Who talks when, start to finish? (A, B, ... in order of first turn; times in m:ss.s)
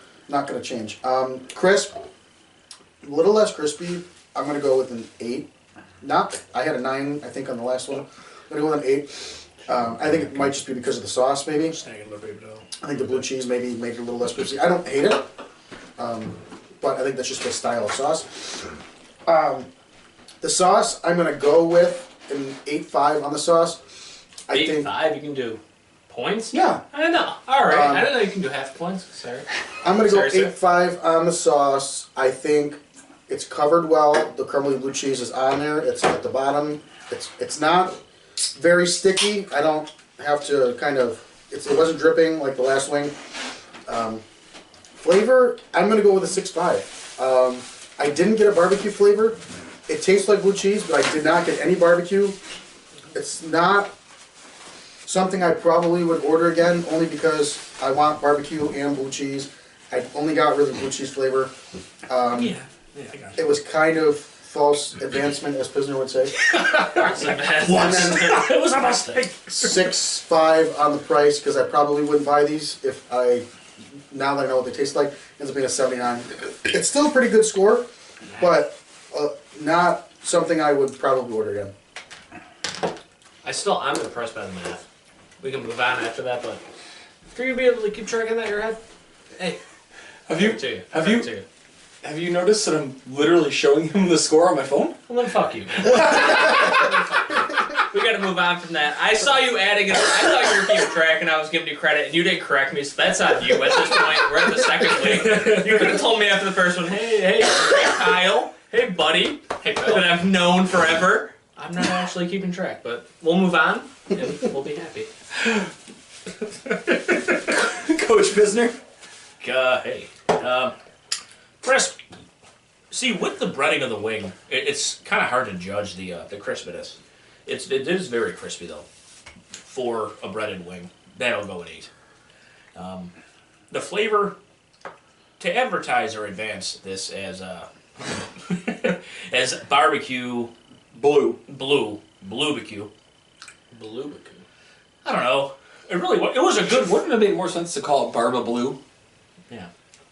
0:00.3-0:01.9 A
0:03.0-0:05.4 A
0:06.0-0:11.8 A
0:10.0-0:10.4 B
0:11.7-0:12.6 B
0:12.8-0:15.2 A
0:16.0-0:18.7 A
0:19.2-0:19.7 A
0:20.4-0:23.8 A
0:24.5-0:24.9 A
0:24.5-0:29.5 C
0:26.5-0:26.8 D
0:27.6-0:28.2 A
0:29.8-0:38.0 A
0:30.0-0:30.5 C
0:38.5-0:43.1 A
0:43.9-0:44.2 A
0:45.0-0:52.4 A
0:53.1-0:53.9 A
0:55.0-1:01.5 A
1:02.1-1:02.5 A
1:02.3-1:03.5 B
1:03.4-1:06.3 A
1:06.4-1:09.9 B
1:06.9-1:09.2 C
1:07.7-1:08.2 A
1:09.5-1:13.4 A
1:14.1-1:17.8 A
1:18.4-1:21.7 A
1:23.4-1:24.8 C
1:25.4-1:26.6 C
1:27.3-1:28.8 C
1:29.3-1:29.6 C
1:30.3-1:31.3 D
1:30.3-1:31.4 C
1:32.0-1:35.0 D
1:35.1-1:55.1 C
1:45.2-1:46.0 B
1:49.6-1:50.0 B
1:56.9-1:58.8 D
1:59.4-2:00.7 B
2:01.6-2:02.0 B
2:02.9-2:08.8 B
2:09.6-2:11.9 B
2:12.7-2:13.1 B
2:13.7-2:14.3 B
2:15.4-2:20.5 B
2:20.9-2:21.4 D
2:21.5-2:22.9 B
2:23.7-2:24.4 C
2:25.0-2:27.0 B
2:26.6-2:28.8 D